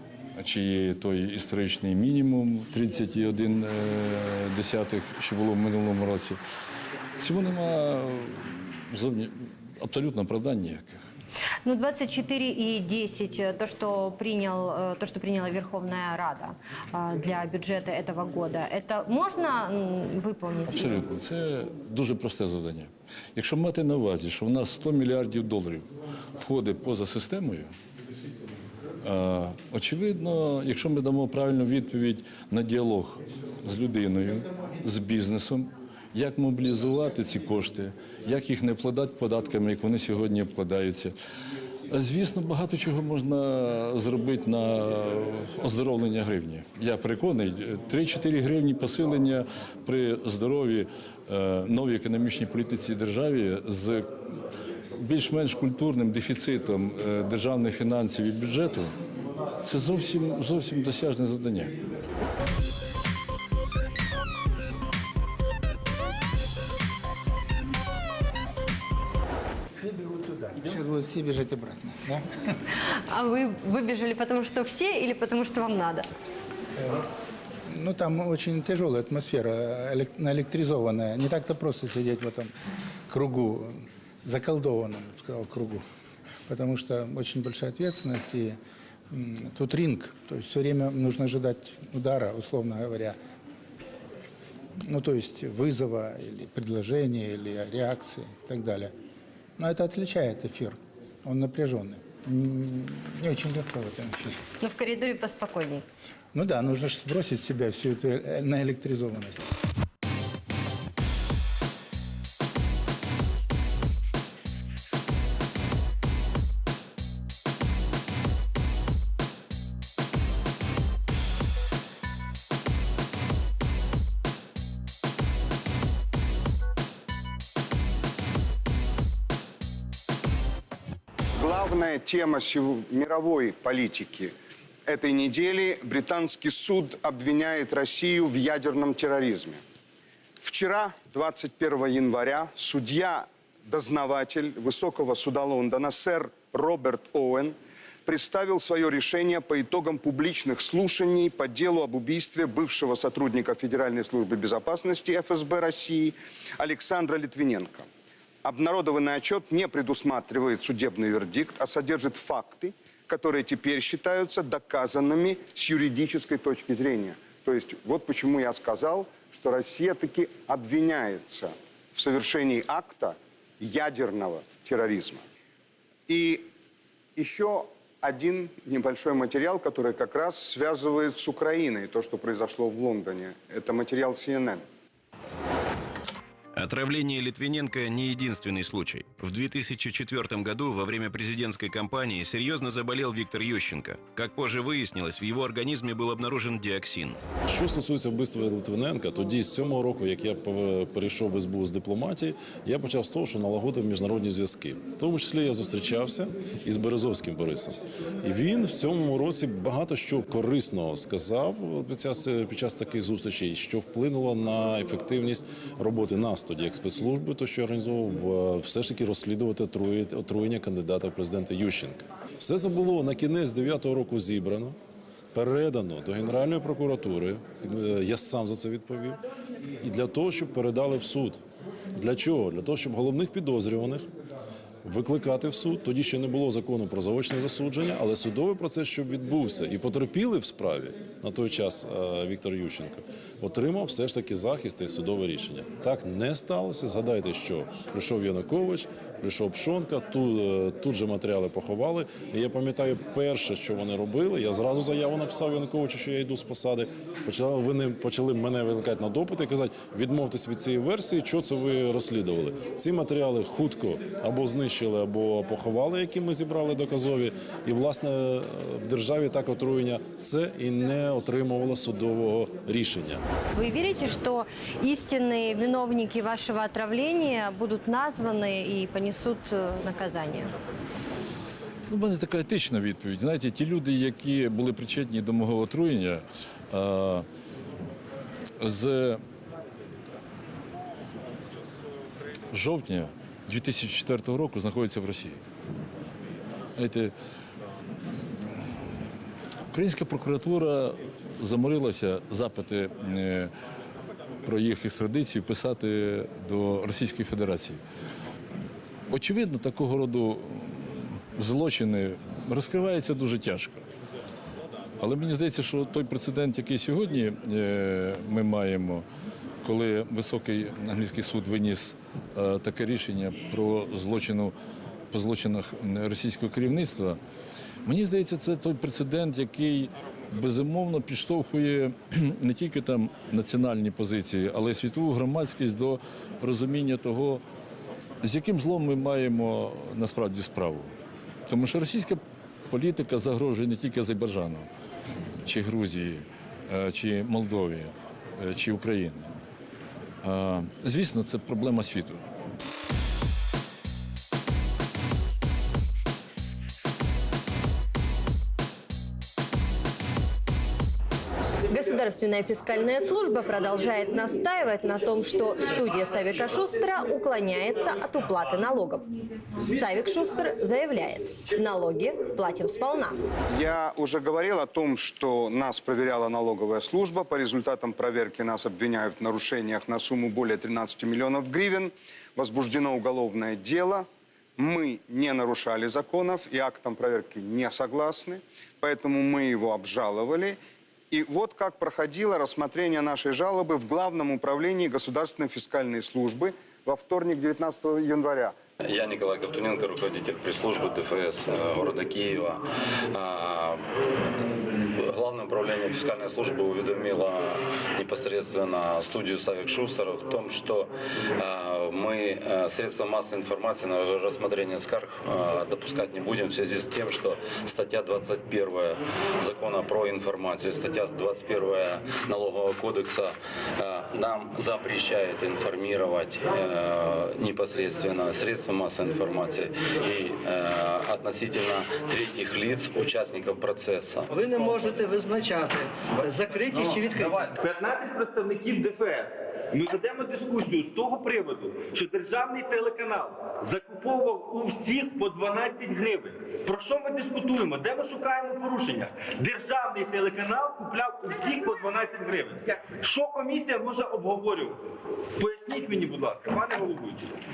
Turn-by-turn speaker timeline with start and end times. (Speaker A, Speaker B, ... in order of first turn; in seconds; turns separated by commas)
Speaker A: 0.4-6.4, Speaker A: 7.2-11.0, Speaker B: 11.7-21.0, Speaker A: 20.7-27.7, Speaker A: 29.0-41.1, Speaker A: 41.9-54.3, Speaker A: 55.0-59.0, Speaker A: 59.6-61.8, Speaker C: 69.8-72.3, Speaker B: 72.8-76.1, Speaker C: 76.8-77.1, Speaker C: 77.7-82.5, Speaker C: 83.1-85.8, Speaker C: 86.5-88.6, Speaker C: 89.1-93.2, Speaker C: 94.9-98.9, Speaker C: 99.6-104.4, Speaker B: 104.6-105.8, Speaker C: 106.3-109.5, Speaker D: 131.4-134.3, Speaker D: 134.9-139.6, Speaker D: 140.4-157.9, Speaker D: 158.4-175.2, Speaker D: 176.1-176.5, Speaker D: 177.2-184.6, Speaker E: 186.6-197.2, Speaker F: 197.5-224.8, Speaker F: 225.3-229.2, Speaker F: 229.8-231.4, Speaker F: 231.9-234.1, Speaker F: 234.8-273.2, Speaker B: 273.4-280.5, Speaker A: 281.9-287.3, Speaker A: 288.6-289.2, Speaker A: 292.5-295.4, Speaker A: 296.8-297.1, Speaker A: 298.3-298.7, Speaker A: 299.7-303.5, Speaker A: 304.4-307.8, Speaker A: 309.1-313.9, Speaker A: 315.0-319.1, Speaker A: 319.6-324.6, Speaker A: 325.1-327.2, Speaker A: 327.8-337.4, Speaker A: 338.2-340.9, Speaker A: 341.5-344.7, Speaker A: 345.4-349.3, Speaker A: 350.2-352.2, Speaker B: 361.7-369.1, Speaker B: 369.6-373.2, Speaker D: 373.5-390.6, Speaker D: 391.1-398.6, Speaker G: 398.8-434.3, Speaker H: 434.3-437.5, Speaker I: 436.7-457.4